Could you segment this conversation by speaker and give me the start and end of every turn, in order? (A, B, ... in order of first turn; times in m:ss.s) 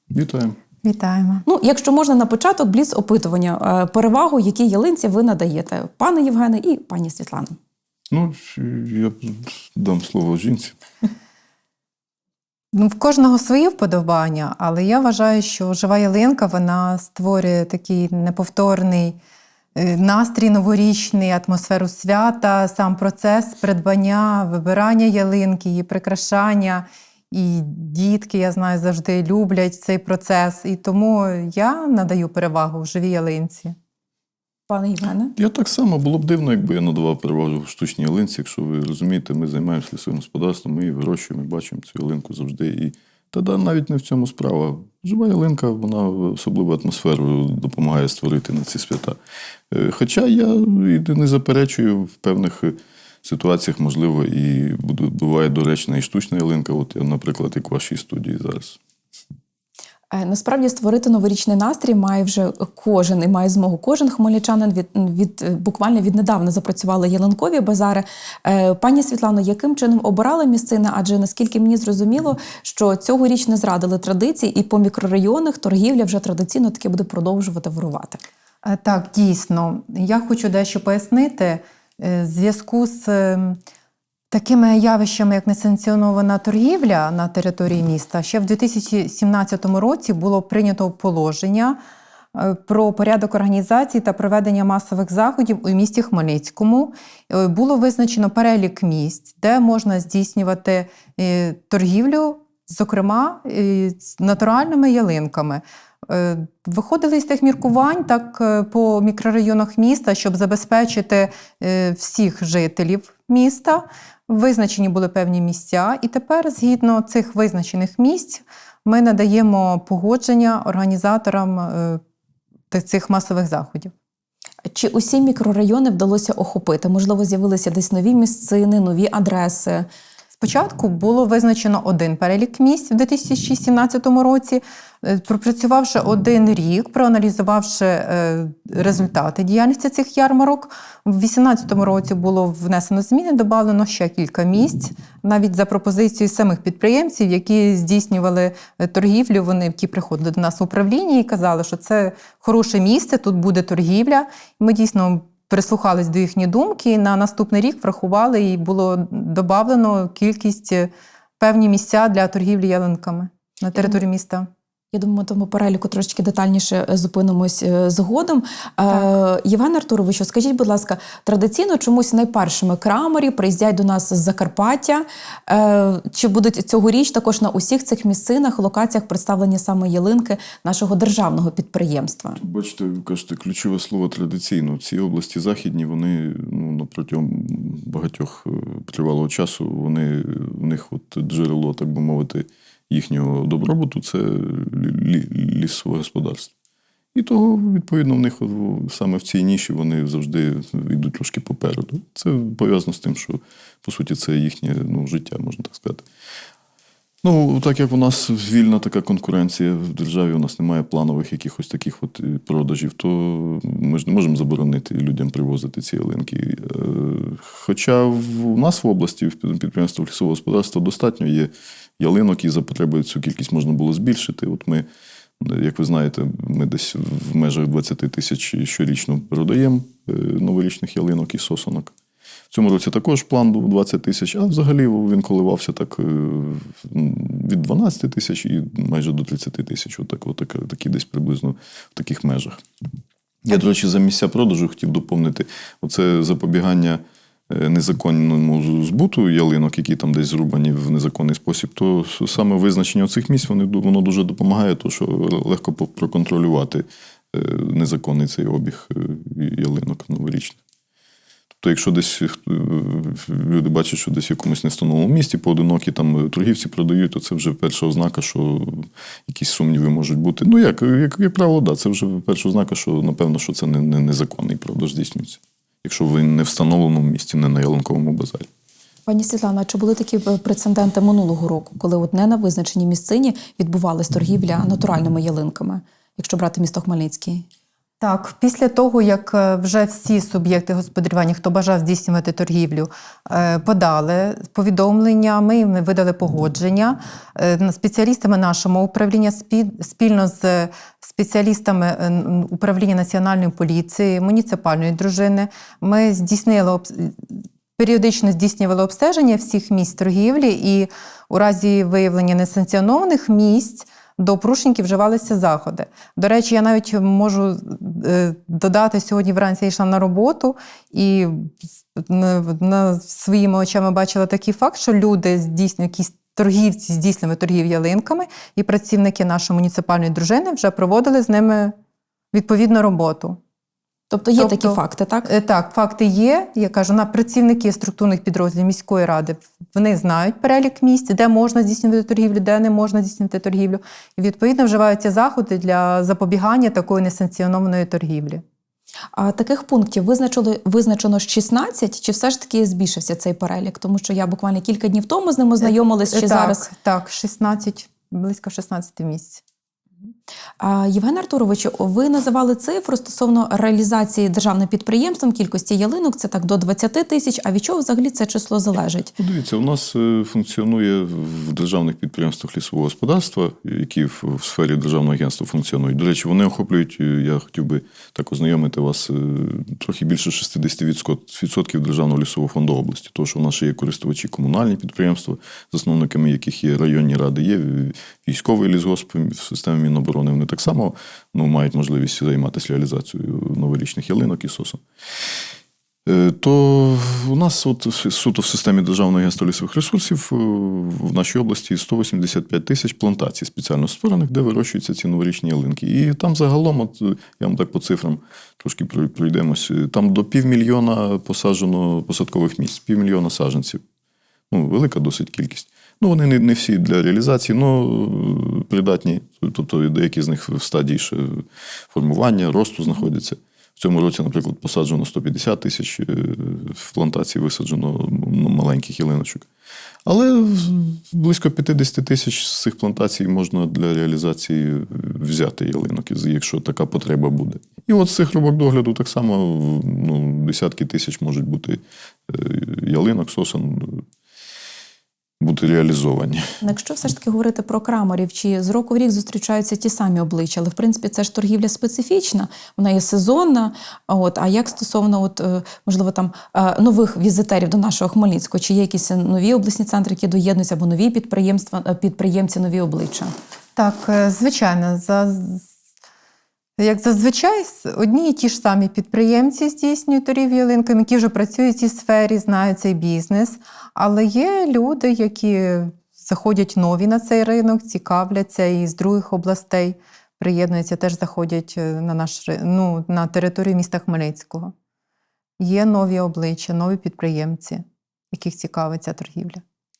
0:00.1-0:00.6 A
0:00.8-0:01.4 B
0:01.4-0:07.6 C
0:08.1-0:10.8 A
0:12.7-0:19.2 B
0:19.7-0:33.8 B
0:34.7-0:35.3 C
0:35.4-0:49.2 A
0:49.7-0:58.8 A
1:00.1-1:18.2 C
1:18.6-1:23.6 B
1:24.3-1:31.8 B
1:32.3-2:02.0 B
2:02.7-2:03.9 B
2:04.6-2:09.9 C
2:10.3-2:44.5 B
2:44.9-3:02.4 C
3:02.4-3:16.5 A
3:17.1-3:26.0 A
3:27.2-3:44.8 A
3:45.4-3:51.9 A
3:52.5-4:02.6 A
4:03.4-4:20.6 A
4:21.6-4:38.5 A
4:39.1-4:47.4 C
4:48.0-5:31.8 B
5:32.3-5:33.4 B
5:34.1-5:35.3 C
5:34.4-5:48.4 B
5:49.1-5:56.7 C
5:55.6-5:59.4 B
6:00.6-6:09.1 C
6:09.2-6:34.8 A
6:36.0-6:53.8 A
6:54.5-7:09.5 A
7:10.0-7:24.0 A
7:25.4-7:26.6 A
7:26.6-7:43.3 C
7:43.8-7:45.6 B
7:46.8-8:04.7 B
8:05.6-8:09.6 B